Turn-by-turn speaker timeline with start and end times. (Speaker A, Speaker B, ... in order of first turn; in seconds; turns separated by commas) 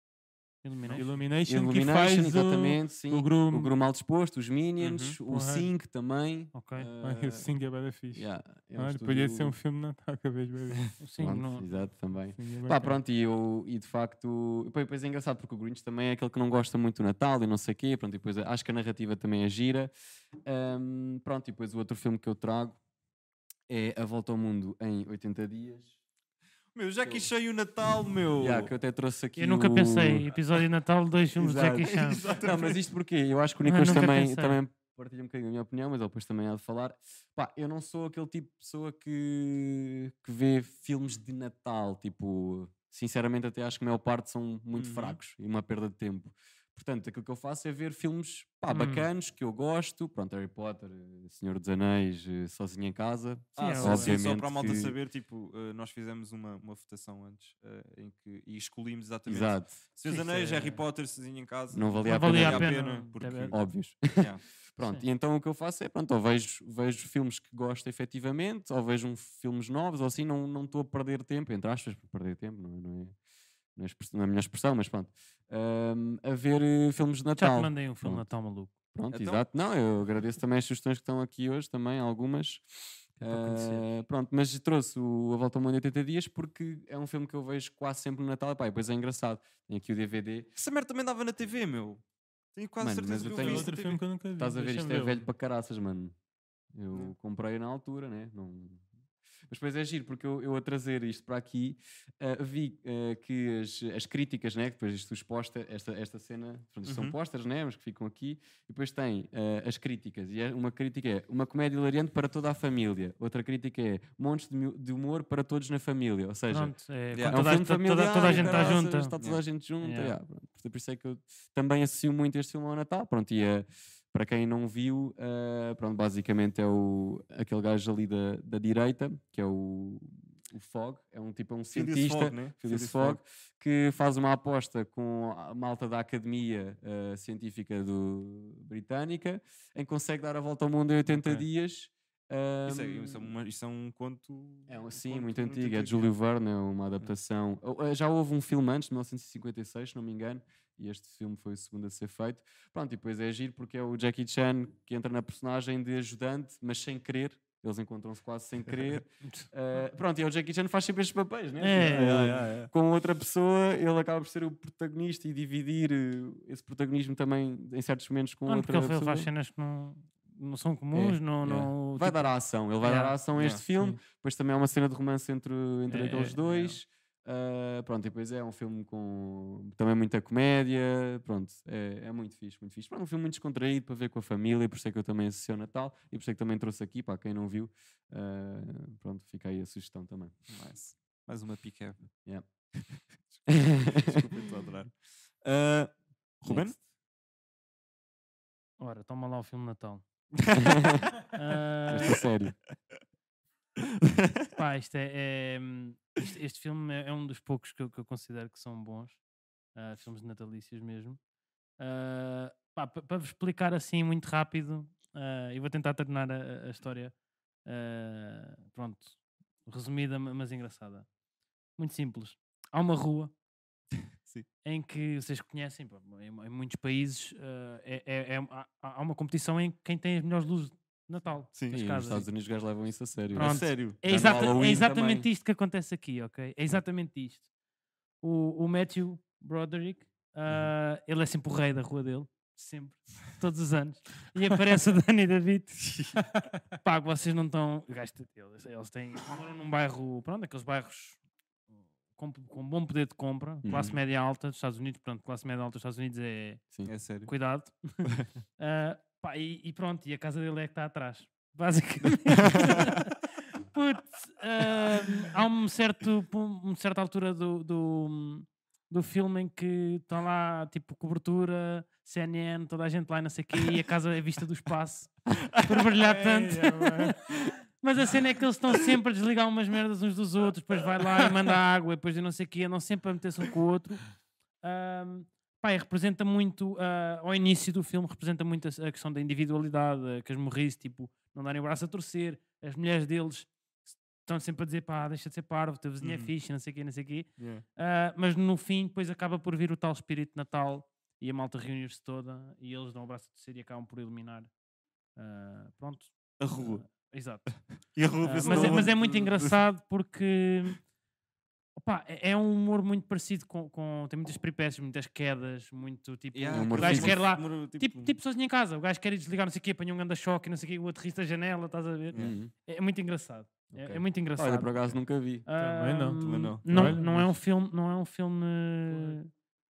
Speaker A: 0.6-1.0, Speaker B: 0.9-3.7, Speaker C: 1.4-7.5, Speaker D: 4.8-5.2, Speaker B: 5.3-5.7, Speaker A: 6.5-6.9, Speaker B: 7.0-10.9, Speaker C: 8.1-9.5, Speaker A: 11.0-11.7, Speaker C: 11.2-19.9, Speaker B: 12.3-13.0, Speaker C: 20.4-22.8, Speaker C: 23.7-25.9, Speaker D: 26.7-28.7, Speaker C: 28.4-30.3, Speaker A: 29.4-32.2, Speaker C: 31.4-55.0, Speaker D: 31.8-32.8, Speaker A: 33.6-34.6, Speaker D: 44.7-45.2, Speaker A: 48.7-49.1, Speaker D: 53.5-64.4, Speaker A: 53.6-54.2, Speaker C: 59.3-59.8, Speaker A: 60.1-60.8, Speaker C: 61.7-62.7, Speaker A: 62.0-63.5, Speaker C: 63.5-73.1, Speaker C: 73.8-78.2, Speaker A: 77.3-78.7, Speaker C: 78.9-82.6, Speaker D: 79.1-79.4, Speaker C: 83.2-90.5, Speaker A: 83.2-83.8, Speaker D: 90.5-92.0, Speaker D: 92.5-94.0, Speaker C: 92.8-93.8, Speaker B: 93.2-95.3, Speaker C: 94.4-96.1, Speaker C: 96.7-98.9, Speaker C: 99.5-116.7, Speaker D: 106.8-107.1, Speaker A: 116.5-119.1, Speaker D: 117.1-117.5, Speaker C: 117.2-143.3, Speaker D: 118.2-119.4, Speaker A: 119.8-120.2, Speaker D: 131.7-133.2, Speaker D: 141.1-141.5, Speaker D: 142.7-146.1, Speaker C: 144.7-169.3, Speaker A: 161.6-162.2, Speaker D: 161.8-162.7, Speaker A: 168.5-173.2, Speaker C: 170.9-190.3, Speaker D: 173.3-173.6, Speaker A: 175.9-176.8, Speaker D: 190.5-192.1, Speaker D: 192.8-196.8, Speaker C: 193.5-194.2, Speaker C: 196.5-196.8, Speaker A: 198.8-200.0, Speaker C: 200.6-201.1, Speaker A: 201.3-202.2, Speaker C: 201.9-202.6, Speaker D: 204.0-204.5, Speaker A: 204.5-209.2, Speaker A: 209.7-211.2, Speaker A: 211.8-217.1, Speaker A: 217.6-221.1, Speaker A: 221.8-223.3, Speaker A: 224.6-232.2, Speaker D: 231.5-232.2, Speaker C: 231.7-235.3, Speaker A: 233.3-237.5, Speaker D: 233.3-234.0, Speaker A: 238.2-245.9, Speaker A: 246.8-251.2, Speaker A: 252.1-256.6, Speaker C: 253.6-253.9, Speaker D: 256.9-257.3, Speaker A: 257.2-284.1, Speaker D: 262.4-262.9, Speaker D: 275.5-275.8, Speaker B: 276.0-277.2, Speaker A: 284.6-304.5, Speaker D: 296.0-296.3, Speaker D: 297.4-297.6, Speaker A: 305.1-307.6, Speaker D: 306.4-306.8, Speaker D: 307.9-309.6, Speaker A: 308.2-310.8, Speaker B: 308.4-308.8, Speaker A: 311.8-329.3, Speaker D: 316.3-318.1, Speaker C: 316.5-317.2, Speaker C: 322.1-322.5, Speaker C: 323.7-325.4, Speaker B: 325.6-327.3, Speaker D: 326.2-326.9, Speaker B: 328.9-329.2